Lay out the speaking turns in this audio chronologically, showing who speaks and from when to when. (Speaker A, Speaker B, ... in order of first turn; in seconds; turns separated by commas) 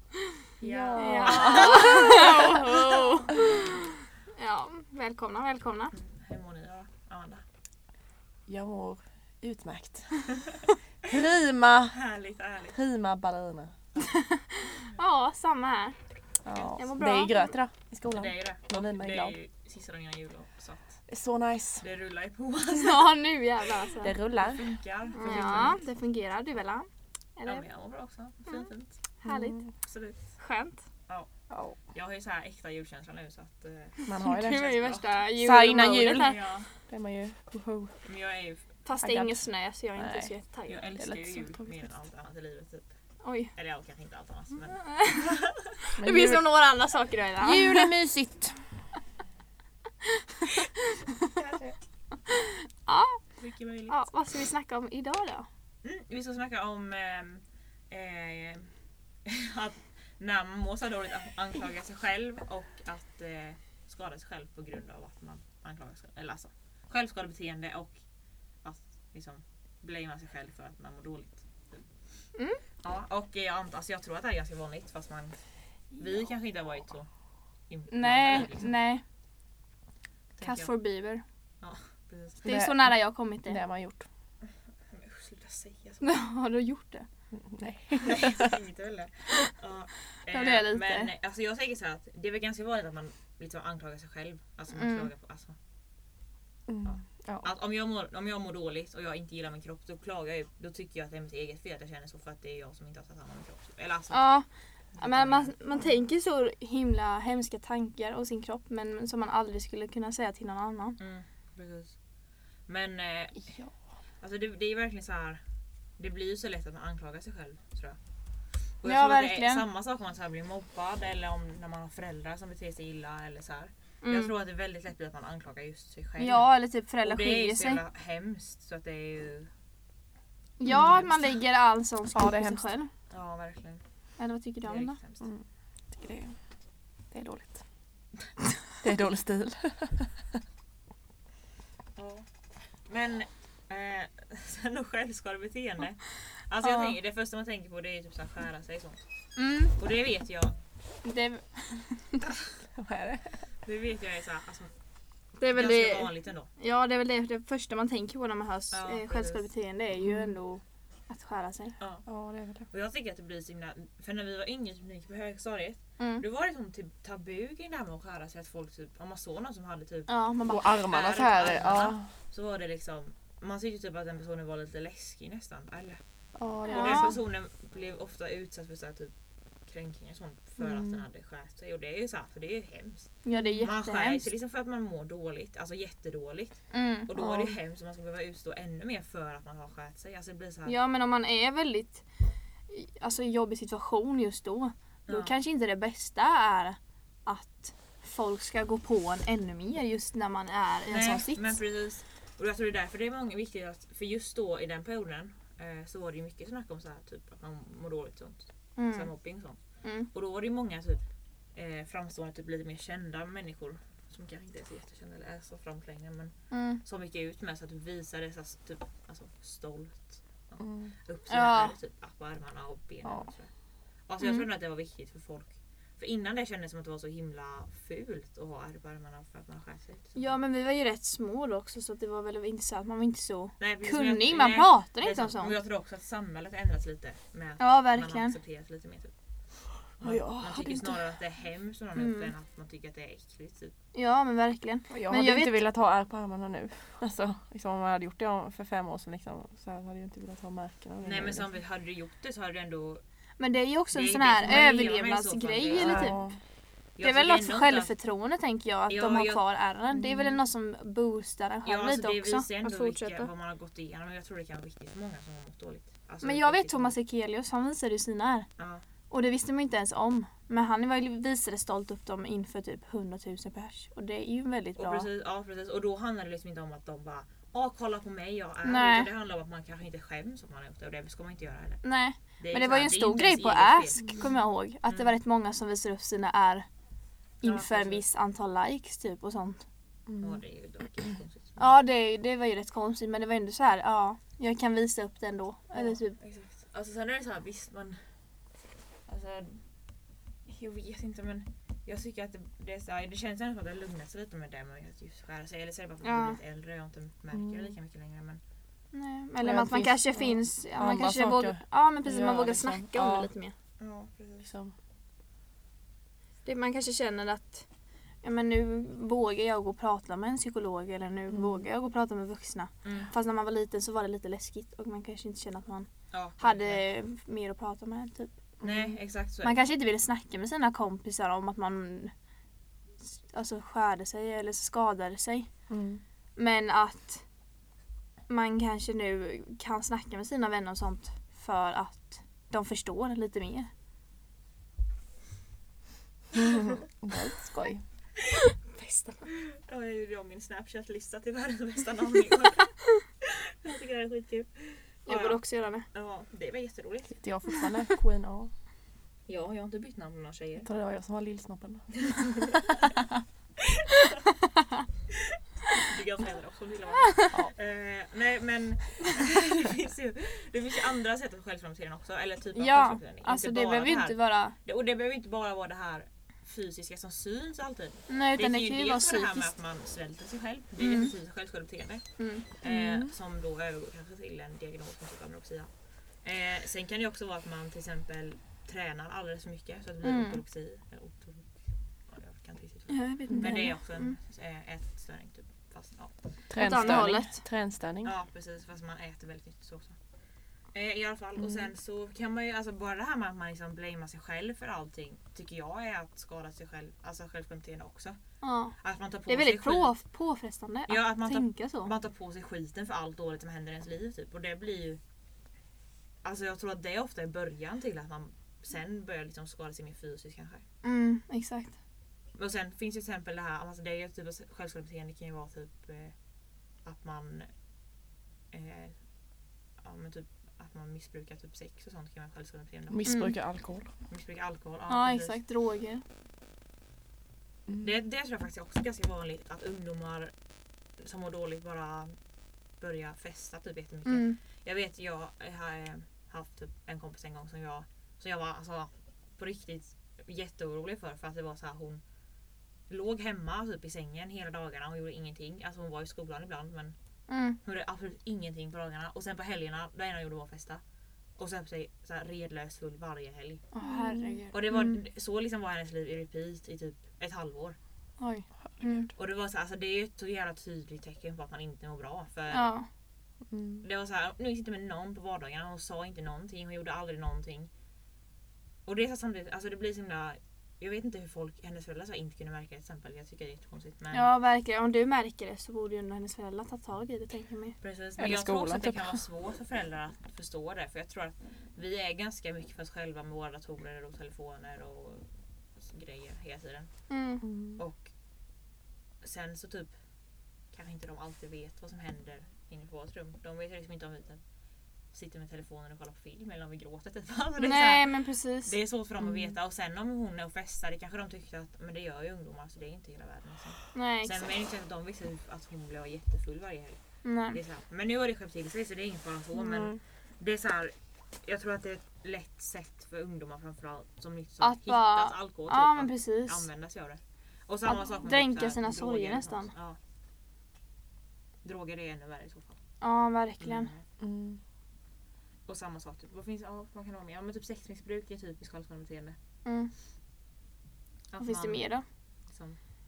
Speaker A: 0.6-2.1, Speaker B: 0.6-2.6, Speaker C: 0.9-5.9, Speaker A: 5.9-7.4, Speaker B: 8.5-10.3, Speaker B: 11.0-12.0, Speaker A: 11.9-12.8, Speaker B: 12.7-13.7, Speaker C: 14.1-15.9, Speaker B: 16.4-19.3, Speaker A: 16.5-16.8, Speaker C: 16.8-17.4, Speaker A: 18.1-20.8, Speaker B: 21.1-21.8, Speaker A: 21.8-23.2, Speaker C: 22.7-24.1, Speaker B: 24.0-24.7, Speaker A: 24.3-25.8, Speaker C: 25.2-27.6, Speaker B: 25.2-25.8, Speaker A: 27.4-28.9, Speaker C: 29.2-29.6, Speaker B: 29.2-29.6, Speaker A: 29.8-30.2, Speaker C: 30.4-30.8, Speaker B: 31.5-31.8, Speaker A: 31.9-35.2, Speaker B: 34.1-34.7, Speaker C: 34.2-36.4, Speaker B: 35.4-37.9, Speaker A: 35.8-36.7, Speaker A: 38.0-38.6, Speaker C: 38.8-40.8, Speaker B: 39.0-40.3, Speaker A: 40.7-42.8, Speaker B: 41.0-41.9, Speaker C: 43.2-43.5, Speaker A: 43.5-45.4, Speaker C: 44.9-45.2, Speaker B: 46.0-46.4, Speaker C: 46.0-47.9, Speaker B: 47.4-48.6, Speaker C: 52.3-53.2, Speaker A: 53.4-53.9, Speaker C: 53.9-55.5, Speaker A: 55.8-58.7, Speaker A: 59.2-68.0, Speaker A: 68.6-71.8, Speaker C: 72.3-72.6, Speaker A: 72.8-75.4, Speaker A: 75.9-77.1, Speaker A: 77.7-78.7, Speaker C: 77.9-79.0, Speaker A: 80.4-80.7, Speaker C: 80.4-81.2, Speaker A: 81.6-82.5, Speaker B: 82.4-84.0, Speaker C: 82.4-83.6, Speaker A: 84.8-86.2, Speaker C: 86.0-87.0, Speaker B: 87.4-88.6, Speaker A: 87.9-95.5, Speaker C: 90.3-91.1, Speaker C: 94.7-95.1, Speaker B: 96.7-97.5, Speaker A: 96.8-104.4, Speaker C: 104.1-104.5, Speaker A: 104.9-105.5, Speaker C: 105.0-111.0, Speaker A: 111.0-112.0, Speaker A: 112.7-113.7, Speaker A: 114.2-115.4, Speaker A: 116.0-118.0, Speaker A: 118.8-129.5, Speaker C: 118.8-119.6, Speaker C: 124.0-124.3, Speaker C: 126.2-127.8, Speaker C: 130.6-132.9, Speaker B: 130.7-130.9, Speaker A: 130.7-131.1, Speaker B: 132.1-132.7, Speaker A: 133.1-133.8, Speaker C: 134.2-135.0, Speaker A: 134.6-135.3, Speaker B: 135.2-136.4, Speaker B: 137.1-137.6, Speaker B: 138.8-140.1, Speaker A: 141.9-142.2, Speaker A: 142.8-149.1, Speaker C: 146.6-146.9, Speaker C: 149.3-149.7, Speaker A: 149.8-150.5, Speaker C: 151.0-152.2, Speaker B: 152.8-153.4, Speaker A: 153.6-154.7, Speaker C: 155.4-161.8, Speaker A: 155.4-156.5, Speaker A: 158.7-159.5, Speaker B: 160.0-160.3, Speaker A: 161.8-162.0, Speaker B: 162.1-162.7, Speaker A: 162.7-176.0, Speaker C: 166.0-166.2, Speaker C: 170.1-170.7, Speaker B: 170.5-172.1, Speaker B: 176.3-177.2, Speaker C: 176.7-177.1, Speaker A: 176.7-179.1, Speaker A: 179.6-190.7, Speaker B: 180.6-181.0, Speaker C: 183.2-184.3, Speaker C: 186.7-187.1, Speaker C: 190.7-192.1, Speaker C: 192.7-201.6, Speaker A: 200.9-211.0, Speaker C: 208.8-209.1, Speaker C: 209.8-210.1, Speaker A: 211.5-223.5, Speaker C: 216.5-216.8, Speaker B: 220.6-220.9, Speaker C: 221.3-221.7, Speaker B: 223.0-223.3, Speaker A: 224.0-230.3, Speaker C: 224.2-224.4, Speaker C: 230.2-235.6, Speaker A: 233.6-239.1, Speaker C: 237.6-238.3, Speaker A: 240.0-243.7, Speaker B: 240.0-241.0, Speaker C: 241.9-242.3, Speaker C: 243.9-245.6, Speaker B: 244.9-251.4, Speaker A: 251.0-253.0, Speaker C: 253.4-256.2, Speaker A: 253.9-256.3, Speaker B: 255.8-256.4, Speaker A: 256.9-257.9, Speaker C: 257.0-263.3, Speaker A: 258.9-259.4, Speaker B: 259.9-260.4, Speaker A: 261.6-266.9, Speaker C: 266.2-268.5, Speaker A: 268.6-268.8, Speaker C: 269.1-275.1, Speaker A: 274.8-281.8, Speaker C: 278.6-279.1, Speaker C: 281.8-286.6, Speaker A: 282.4-284.1, Speaker A: 284.9-285.1, Speaker A: 287.4-288.0, Speaker C: 287.4-289.6, Speaker B: 290.1-290.4, Speaker A: 290.2-291.7, Speaker C: 291.6-296.1, Speaker A: 295.7-298.1, Speaker A: 299.1-299.6, Speaker A: 300.5-308.4, Speaker C: 306.0-306.4, Speaker B: 307.3-307.7, Speaker C: 308.9-313.5, Speaker B: 309.4-313.3, Speaker A: 313.8-314.5, Speaker B: 314.4-314.7, Speaker C: 316.4-317.6, Speaker C: 318.2-328.3, Speaker B: 321.3-321.6, Speaker A: 322.8-323.1, Speaker A: 326.1-326.9, Speaker A: 328.6-329.6, Speaker C: 329.4-332.1, Speaker C: 333.1-335.5, Speaker B: 335.7-336.0, Speaker C: 336.4-337.2, Speaker C: 338.3-343.7, Speaker B: 347.0-347.8, Speaker C: 348.7-349.3, Speaker A: 349.6-357.3, Speaker C: 355.1-355.9, Speaker B: 357.1-358.5, Speaker A: 359.2-360.7, Speaker B: 360.6-362.0, Speaker A: 362.1-362.6, Speaker A: 365.8-385.7, Speaker C: 372.5-374.5, Speaker C: 378.1-379.5, Speaker C: 380.8-381.1, Speaker C: 382.2-382.4, Speaker B: 382.6-383.1, Speaker A: 386.2-391.5, Speaker C: 390.0-390.4, Speaker A: 392.1-397.2, Speaker C: 392.9-394.2, Speaker B: 393.3-393.7, Speaker B: 396.5-398.1, Speaker C: 396.6-397.3, Speaker A: 398.0-399.9, Speaker A: 400.7-408.2, Speaker C: 408.4-408.8, Speaker A: 408.8-409.9, Speaker C: 409.3-411.9, Speaker A: 410.9-415.0, Speaker A: 416.2-420.6, Speaker C: 420.8-421.8, Speaker A: 422.4-426.1, Speaker A: 426.8-427.5, Speaker A: 428.5-429.1, Speaker A: 429.8-433.4, Speaker B: 432.9-433.9, Speaker C: 433.0-433.3, Speaker A: 434.1-435.4, Speaker C: 434.9-436.0, Speaker A: 437.8-440.3, Speaker A: 441.0-442.1, Speaker A: 442.8-452.0, Speaker C: 444.1-444.4, Speaker A: 452.9-456.9, Speaker C: 457.3-457.6, Speaker A: 457.6-460.8, Speaker A: 461.4-463.7, Speaker C: 463.7-465.0, Speaker B: 463.8-464.4, Speaker A: 464.5-467.8, Speaker C: 468.2-469.1, Speaker A: 469.1-472.7, Speaker C: 472.5-472.9, Speaker B: 473.5-473.8, Speaker A: 473.8-477.7, Speaker A: 478.8-484.3, Speaker C: 484.1-487.8, Speaker A: 487.8-497.1, Speaker B: 488.2-489.1, Speaker C: 497.1-497.4, Speaker B: 497.4-497.8, Speaker A: 497.8-498.1, Speaker A: 499.2-499.9, Speaker A: 500.7-504.4, Speaker A: 505.1-530.0, Speaker C: 507.6-508.7, Speaker B: 509.2-509.5, Speaker C: 513.9-514.5, Speaker C: 517.2-517.6, Speaker B: 519.5-520.0, Speaker C: 524.6-526.7, Speaker C: 527.9-529.7, Speaker A: 531.6-532.8, Speaker C: 533.0-533.9, Speaker A: 533.6-534.0, Speaker B: 534.2-534.6, Speaker A: 535.7-539.4, Speaker C: 539.6-539.9, Speaker A: 541.3-542.8, Speaker C: 541.4-542.0